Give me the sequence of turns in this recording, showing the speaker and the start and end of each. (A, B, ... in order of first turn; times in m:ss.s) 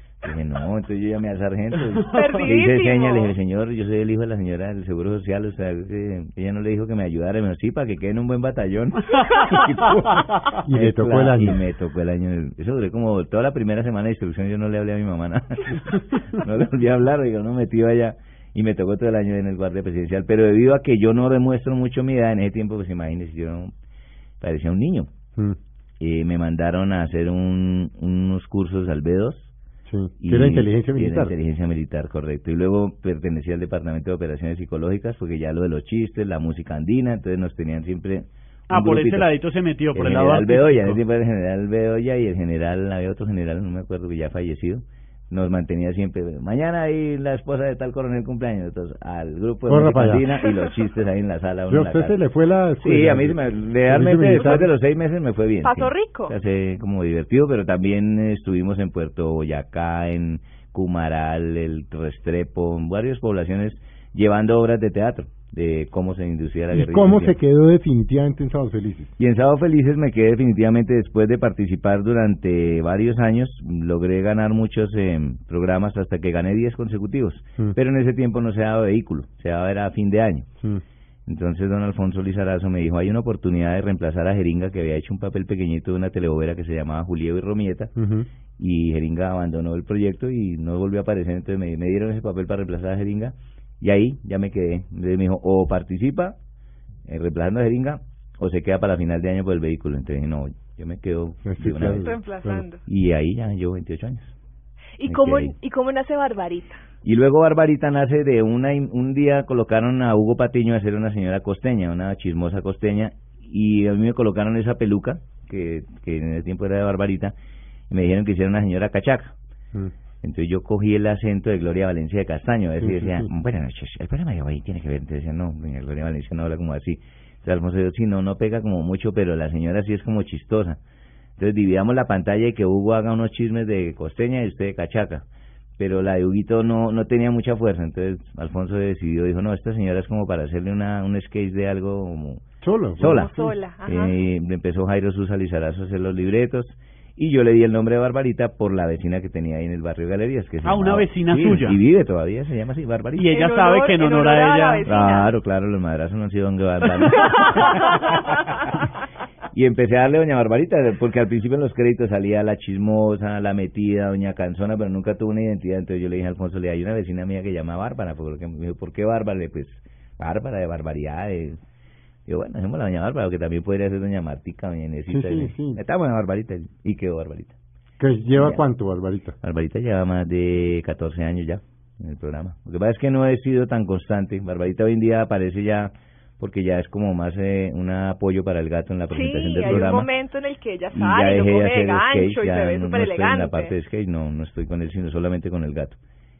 0:00.2-0:23.7 A
0:02.1-0:03.3 B
0:10.6-0:11.6 C
0:24.4-0:25.1 A
0:26.0-0:29.5 A
0:29.9-0:31.3 C
0:30.2-0:39.3 A
0:38.7-0:41.0 D
0:39.9-0:52.2 A
0:49.7-0:50.3 C
0:51.7-0:54.7 C
0:52.8-1:07.4 A
0:55.6-0:56.3 B
1:06.7-1:09.1 C
1:09.2-1:20.5 A
1:21.2-1:27.9 A
1:28.0-1:28.3 C
1:28.6-1:36.3 A
1:37.1-1:42.2 A
1:41.4-1:42.6 C
1:42.0-1:42.8 B
1:42.8-1:44.3 A
1:45.0-1:46.8 B
1:45.1-1:45.5 A
1:47.0-1:57.3 A
1:57.9-1:59.3 A
2:00.2-2:10.8 A
2:02.8-2:03.3 C
2:11.4-2:15.2 A
2:15.8-2:22.4 A
2:22.6-2:23.6 C
2:23.0-2:23.3 A
2:23.0-2:24.2 B
2:23.8-2:33.3 A
2:30.6-2:31.8 D
2:33.1-2:34.9 D
2:33.3-2:35.3 B
2:34.8-2:38.2 A
2:37.2-2:37.5 B
2:39.5-2:51.6 A
2:52.3-2:57.5 A
2:55.1-2:55.8 C
2:58.0-2:59.4 C
2:58.3-2:58.6 A
2:59.4-3:10.1 A
3:09.1-3:13.7 B
3:09.6-3:09.9 C
3:10.9-3:16.0 A